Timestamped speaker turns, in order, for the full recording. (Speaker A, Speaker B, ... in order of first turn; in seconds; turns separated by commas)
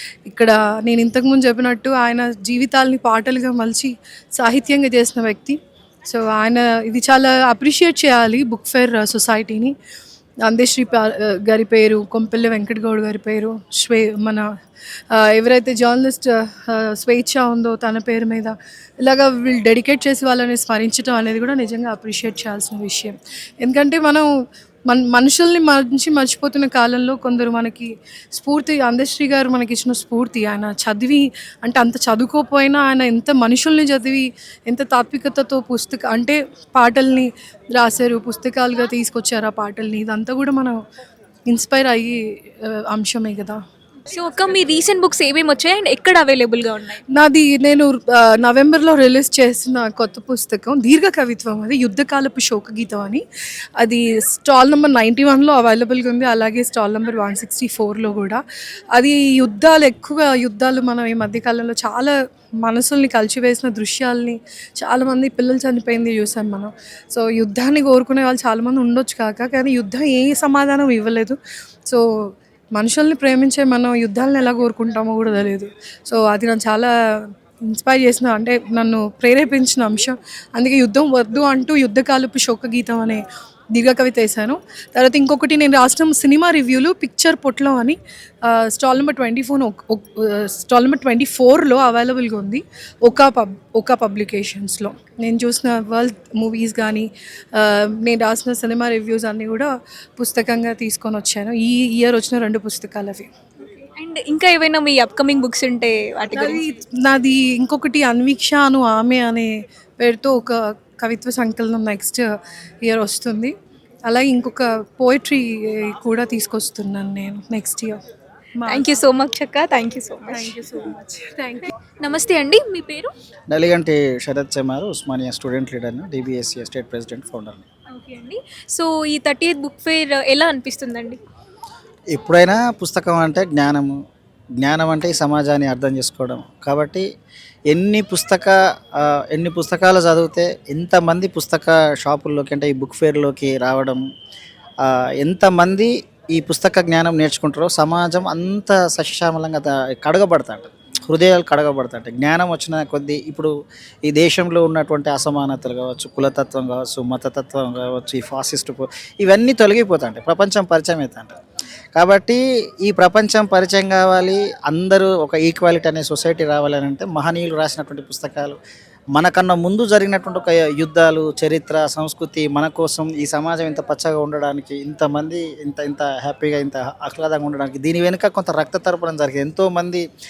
Speaker A: 0.3-9.7, Speaker A: 10.4-14.5, Speaker A: 15.1-24.3, Speaker A: 24.9-40.8, Speaker A: 41.5-43.6, Speaker B: 44.1-47.0, Speaker A: 47.1-53.2, Speaker A: 53.8-58.4, Speaker A: 59.0-72.0, Speaker A: 72.8-76.9, Speaker A: 77.7-83.2, Speaker A: 83.7-103.3, Speaker B: 104.0-106.6, Speaker A: 106.3-112.3, Speaker A: 112.8-113.5, Speaker A: 114.1-118.0, Speaker A: 118.6-118.8, Speaker B: 118.7-120.6, Speaker A: 120.2-121.7, Speaker B: 122.0-123.1, Speaker C: 123.5-127.6, Speaker B: 127.9-131.2, Speaker C: 132.1-134.0, Speaker C: 134.6-137.1, Speaker C: 137.7-144.0, Speaker C: 144.8-153.5, Speaker C: 154.1-161.4, Speaker C: 161.9-168.6, Speaker C: 169.1-180.0